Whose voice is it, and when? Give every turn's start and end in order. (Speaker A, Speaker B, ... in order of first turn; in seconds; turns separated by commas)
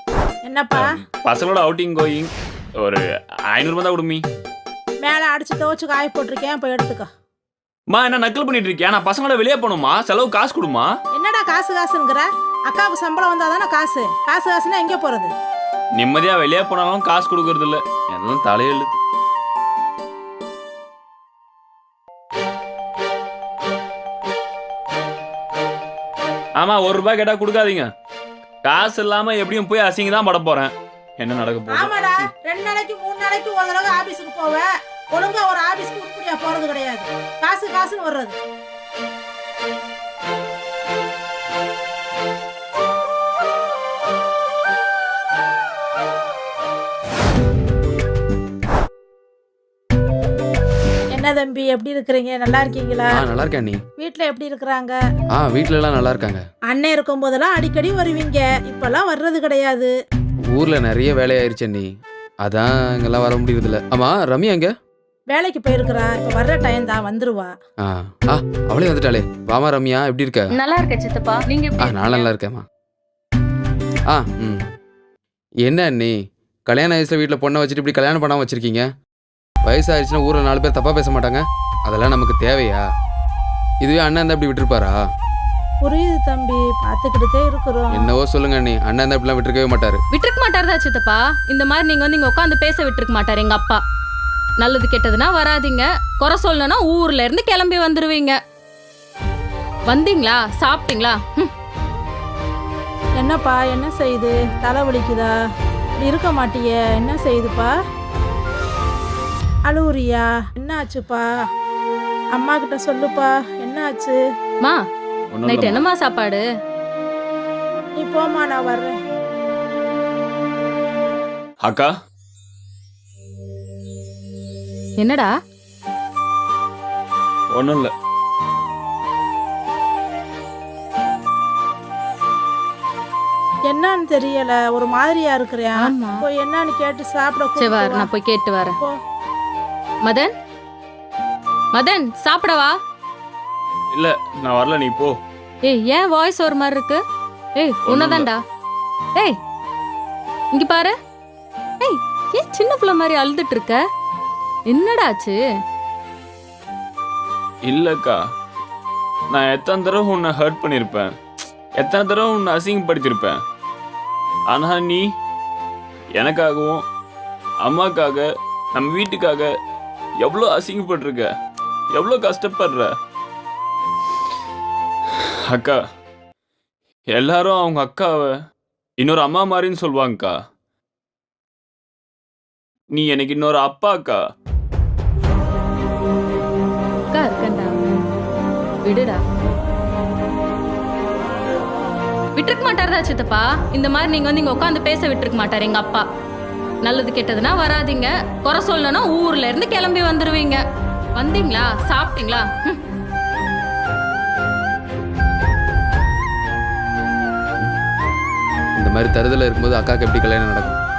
Speaker A: 0.5-0.9, Speaker B: 0.7-4.2, Speaker A: 5.0-7.1, Speaker B: 7.9-10.9, Speaker A: 11.2-15.3, Speaker B: 16.0-19.0, Speaker B: 26.6-27.9, Speaker B: 28.6-32.3, Speaker A: 31.7-38.3, Speaker A: 51.1-53.1, Speaker C: 53.1-53.8, Speaker A: 54.0-55.0, Speaker C: 55.3-56.4, Speaker A: 56.7-59.9, Speaker C: 60.5-61.9, Speaker C: 62.4-64.7, Speaker A: 65.3-67.5, Speaker C: 67.8-70.5, Speaker D: 70.5-72.3, Speaker C: 71.8-72.6, Speaker C: 74.1-74.7, Speaker C: 75.6-76.1, Speaker C: 76.7-78.8, Speaker C: 79.7-82.8, Speaker C: 83.8-85.0, Speaker A: 85.8-88.1, Speaker C: 87.9-90.0, Speaker D: 90.1-93.8, Speaker D: 94.6-98.4, Speaker D: 99.9-101.5, Speaker A: 103.2-105.3, Speaker A: 106.0-107.7, Speaker A: 109.7-111.2, Speaker A: 112.3-114.2, Speaker B: 115.3-115.8, Speaker D: 115.5-116.4, Speaker A: 118.0-118.9, Speaker B: 121.6-121.9, Speaker D: 125.0-125.3, Speaker B: 127.5-127.9, Speaker A: 133.7-138.1, Speaker D: 135.8-136.2, Speaker D: 137.6-138.8, Speaker D: 140.1-140.3, Speaker D: 141.7-142.7, Speaker B: 143.9-145.2, Speaker D: 145.7-147.0, Speaker D: 147.6-148.4, Speaker B: 147.9-148.3, Speaker D: 150.5-150.9, Speaker D: 151.8-153.8, Speaker D: 154.7-155.4, Speaker B: 157.7-158.2, Speaker B: 159.3-161.1, Speaker B: 161.8-163.4, Speaker B: 164.5-165.0, Speaker B: 166.2-166.8, Speaker B: 167.6-169.5, Speaker B: 170.2-171.2, Speaker B: 171.9-172.9, Speaker B: 175.5-175.8, Speaker B: 177.1-178.3, Speaker B: 179.0-180.3, Speaker B: 182.9-184.2, Speaker D: 187.1-187.8, Speaker D: 188.8-189.2, Speaker D: 192.4-196.0, Speaker D: 196.8-200.6, Speaker D: 201.2-202.8, Speaker C: 208.8-210.8